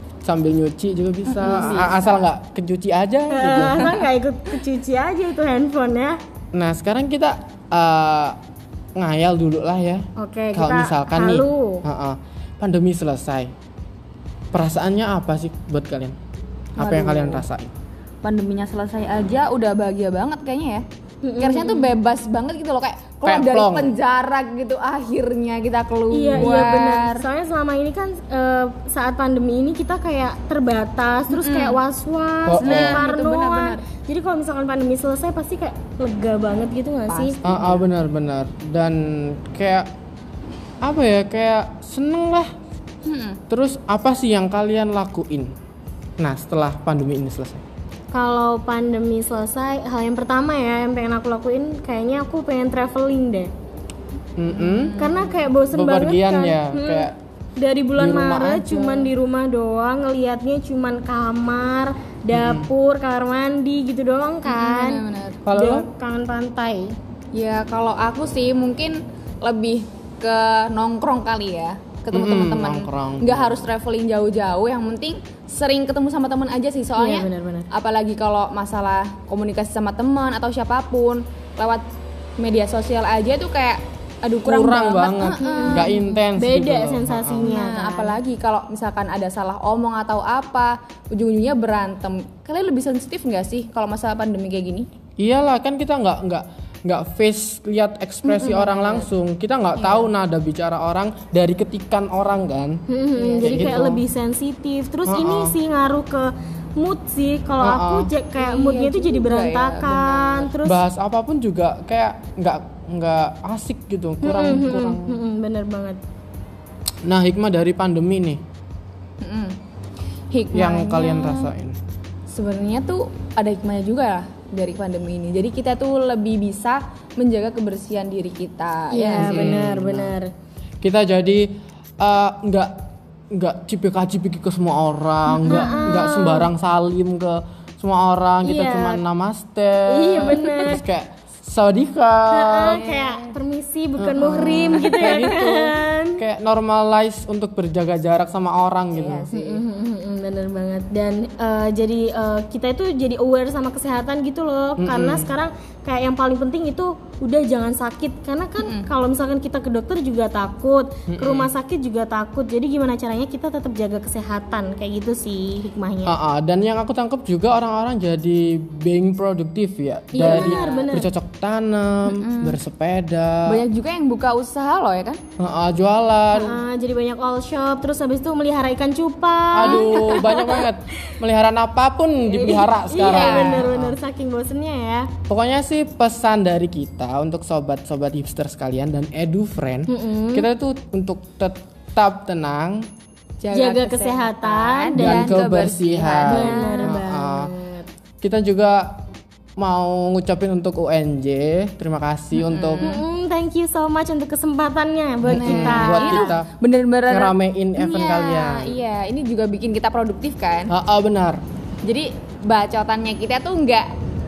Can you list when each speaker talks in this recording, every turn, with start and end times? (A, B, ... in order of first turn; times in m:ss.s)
0:00.2-0:04.0 A
0:01.2-0:02.2 B
0:03.3-0:06.2 C
0:06.5-0:08.4 A
0:09.0-0:13.5 A
0:10.2-0:11.8 C
0:14.5-0:16.2 A
0:16.8-0:17.7 A
0:16.8-0:17.4 B
0:18.2-0:20.8 B
0:21.2-0:21.9 C
0:21.4-0:27.2 B
0:23.2-0:23.9 A
0:26.1-0:37.3 C
0:26.3-0:26.6 A
0:31.3-0:31.8 B
0:32.4-0:33.0 A
0:32.6-0:33.8 B
0:37.1-0:37.8 B
0:37.4-0:39.9 A
0:40.8-0:42.5 A
0:43.0-0:43.4 B
0:43.5-0:45.5 A
0:46.2-0:47.6 A
0:48.1-0:53.5 C
0:54.4-0:55.0 A
0:54.6-0:55.4 B
0:55.0-1:06.9 C
0:55.7-0:57.1 A
0:58.0-0:59.1 A
1:02.3-1:02.7 A
1:04.4-1:05.4 B
1:05.4-1:05.9 A
1:07.3-1:21.8 B
1:12.1-1:13.7 A
1:17.0-1:17.6 C
1:22.4-1:26.1 B
1:24.4-1:27.5 A
1:25.3-1:28.2 C
1:27.4-1:34.9 B
1:35.2-1:42.8 A
1:38.2-1:39.1 B
1:39.8-1:40.1 B
1:42.9-1:50.8 C
1:43.1-1:43.7 B
1:43.4-1:44.0 A
1:45.1-1:45.6 A
1:47.6-1:48.1 A
1:48.4-1:50.5 B
1:50.6-1:55.2 A
1:54.2-1:56.0 C
1:57.0-1:58.4 A
1:59.2-1:59.5 B
2:00.3-2:01.5 B
2:00.5-2:01.8 A
2:02.3-2:09.6 B
2:08.9-2:10.3 C
2:09.1-2:10.1 A
2:10.8-2:22.8 A
2:15.4-2:16.5 C
2:15.4-2:16.0 B
2:18.4-2:19.0 C
2:19.9-2:20.8 C
2:22.3-2:26.2 C
2:22.6-2:23.4 B
2:24.0-2:29.3 A
2:24.2-2:25.2 B
2:28.9-2:29.6 B
2:29.4-2:46.2 C
2:34.8-2:35.3 A
2:38.6-2:38.9 B
2:41.1-2:41.5 A
2:46.0-2:53.6 A
2:50.1-2:51.1 C
2:50.2-2:51.0 B
2:52.0-2:52.6 B
2:53.5-2:55.2 B
2:55.4-2:56.6 A
2:56.3-3:00.7 C
2:59.5-3:04.0 A
2:59.6-3:00.4 B
3:02.3-3:05.1 C
3:03.0-3:03.7 B
3:05.3-3:12.9 A
3:09.9-3:10.5 C
3:13.4-3:17.0 B
3:13.5-3:15.4 C
3:14.9-3:17.5 A
3:16.2-3:17.9 C
3:18.2-3:19.0 A
3:19.6-3:23.0 A
3:22.3-3:23.0 B
3:22.8-3:26.4 C
3:25.2-3:26.5 A
3:25.3-3:30.7 B
3:27.1-3:28.8 A
3:30.7-3:31.4 A
3:31.8-3:33.9 B